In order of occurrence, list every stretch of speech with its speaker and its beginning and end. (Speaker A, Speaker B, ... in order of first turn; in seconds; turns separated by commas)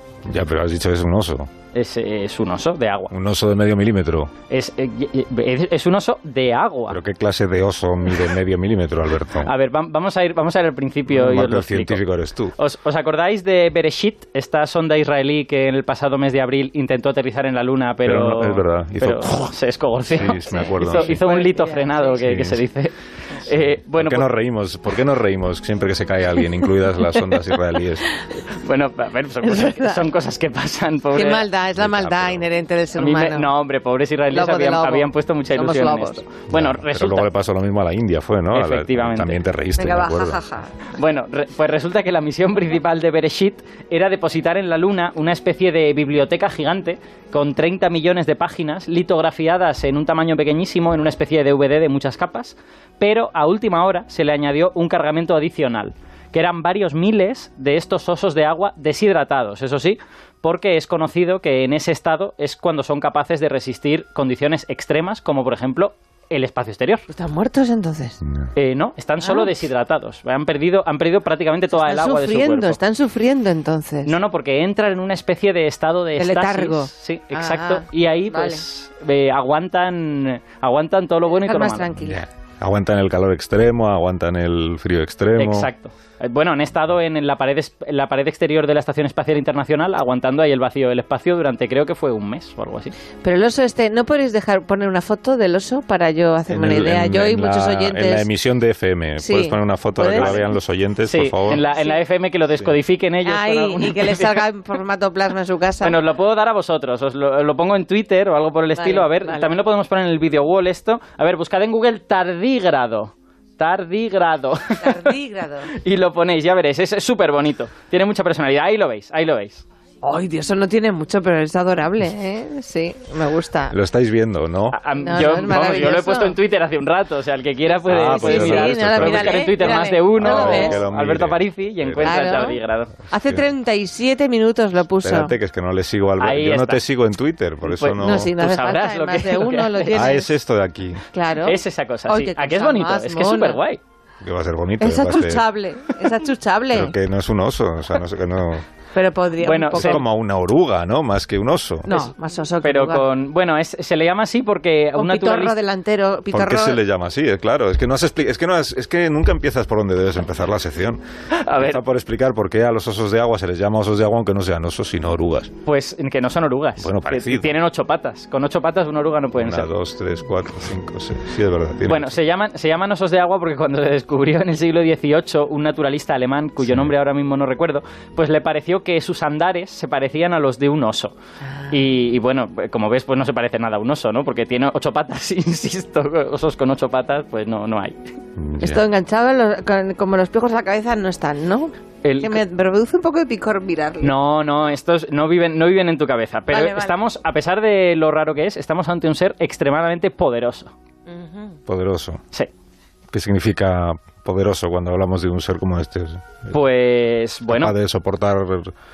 Speaker A: 0.3-1.5, Speaker B: 1.7-3.1, Speaker A: 3.1-4.3, Speaker B: 4.5-7.0, Speaker A: 6.9-9.5, Speaker B: 9.4-12.0, Speaker A: 11.1-12.6, Speaker B: 12.6-24.3, Speaker A: 18.0-19.5, Speaker A: 20.1-21.2, Speaker C: 20.4-22.4, Speaker A: 22.2-22.6, Speaker A: 23.9-28.1, Speaker B: 28.4-31.5, Speaker C: 29.4-30.1, Speaker C: 31.1-33.5, Speaker A: 31.7-32.5, Speaker B: 33.0-37.3, Speaker C: 34.3-36.2, Speaker A: 36.5-40.4, Speaker B: 38.5-39.4, Speaker C: 39.8-40.7, Speaker B: 40.9-67.1, Speaker C: 67.1-68.2, Speaker A: 68.2-68.5, Speaker B: 68.5-72.8, Speaker C: 69.2-69.5, Speaker C: 71.7-74.1, Speaker B: 74.1-81.9, Speaker C: 76.2-78.6, Speaker C: 81.3-82.2, Speaker A: 82.0-85.7, Speaker B: 85.3-92.9, Speaker C: 93.2-98.3, Speaker A: 96.5-101.6, Speaker C: 99.2-100.4, Speaker B: 100.1-100.5, Speaker B: 101.0-104.5, Speaker C: 103.2-106.0, Speaker B: 105.8-115.2, Speaker C: 108.7-109.6, Speaker C: 114.8-115.7, Speaker B: 115.7-119.7, Speaker C: 120.0-123.8, Speaker A: 123.7-124.8, Speaker B: 124.7-132.9, Speaker C: 125.0-126.4, Speaker A: 127.9-132.5, Speaker C: 127.9-130.8, Speaker C: 132.0-132.6, Speaker C: 133.1-135.3, Speaker A: 133.1-133.5, Speaker A: 135.0-138.3, Speaker B: 136.2-136.8, Speaker B: 137.6-140.0, Speaker C: 138.0-140.3, Speaker A: 139.9-141.0, Speaker C: 141.1-143.6, Speaker B: 141.4-143.8, Speaker A: 144.2-145.5, Speaker C: 144.8-146.9, Speaker A: 146.7-148.7, Speaker C: 148.9-150.0, Speaker B: 149.4-150.0, Speaker A: 149.7-151.9, Speaker C: 151.8-153.1, Speaker B: 152.6-155.6, Speaker C: 154.9-156.8, Speaker A: 156.3-161.0, Speaker B: 161.3-161.8, Speaker A: 161.6-165.5, Speaker B: 165.7-169.7, Speaker A: 166.8-167.6, Speaker A: 169.4-172.2, Speaker B: 171.9-181.2, Speaker A: 176.6-176.9, Speaker B: 181.7-188.1, Speaker A: 188.4-188.8, Speaker C: 188.6-194.1, Speaker B: 192.0-192.4, Speaker B: 194.0-200.7, Speaker C: 196.5-197.0, Speaker C: 201.1-201.6, Speaker A: 201.7-202.2, Speaker A: 203.1-206.6, Speaker B: 206.5-207.7, Speaker A: 207.5-208.7